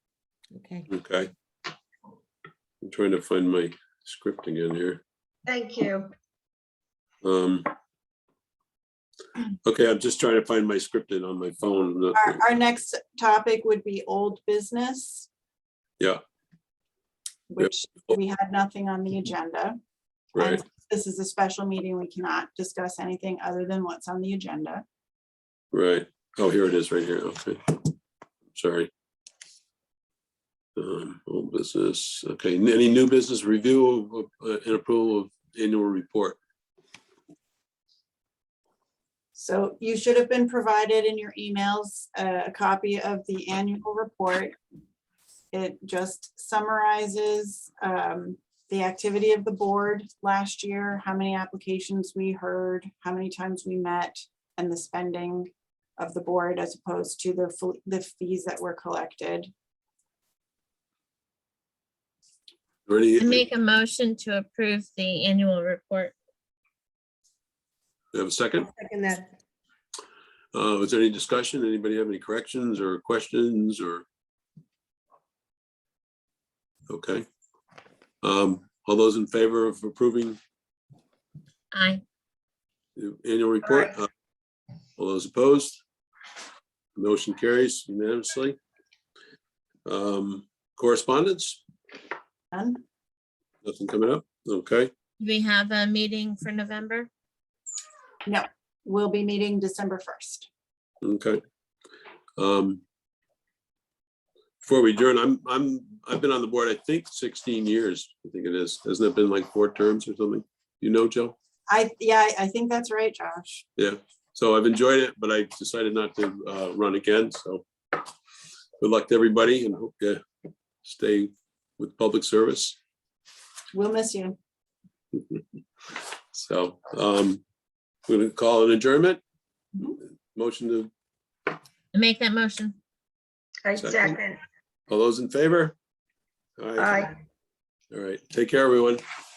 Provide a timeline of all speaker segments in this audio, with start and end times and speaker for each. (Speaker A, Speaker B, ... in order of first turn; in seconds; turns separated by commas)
Speaker A: 0.9-1.3, Speaker A: 2.8-5.0, Speaker B: 5.5-6.1, Speaker A: 7.2-7.7, Speaker A: 9.6-12.4, Speaker C: 12.2-15.3, Speaker C: 17.5-19.8, Speaker C: 20.3-24.8, Speaker A: 20.4-20.6, Speaker A: 25.7-27.9, Speaker A: 28.5-28.9, Speaker A: 30.8-36.4, Speaker C: 39.3-44.5, Speaker C: 45.5-59.5, Speaker A: 62.9-63.4, Speaker D: 63.2-66.1, Speaker A: 68.1-68.7, Speaker B: 68.5-69.3, Speaker A: 70.5-74.0, Speaker A: 76.9-77.2, Speaker A: 78.2-80.4, Speaker D: 81.7-82.0, Speaker A: 83.0-84.1, Speaker A: 85.0-85.8, Speaker A: 87.0-88.6, Speaker A: 89.8-91.6, Speaker C: 92.5-92.8, Speaker A: 93.6-94.9, Speaker D: 95.2-97.1, Speaker C: 98.2-100.5, Speaker A: 101.0-101.4, Speaker A: 102.4-102.8, Speaker A: 104.6-111.3, Speaker C: 111.7-113.6, Speaker A: 113.8-118.1, Speaker A: 118.8-120.2, Speaker A: 120.8-122.8, Speaker C: 123.7-124.3, Speaker A: 126.3-127.4, Speaker A: 128.1-129.2, Speaker A: 130.3-130.9, Speaker D: 131.9-132.8, Speaker B: 133.6-134.4, Speaker A: 133.8-134.2, Speaker A: 134.9-135.8, Speaker A: 136.6-137.1, Speaker B: 136.8-137.2, Speaker A: 137.9-139.0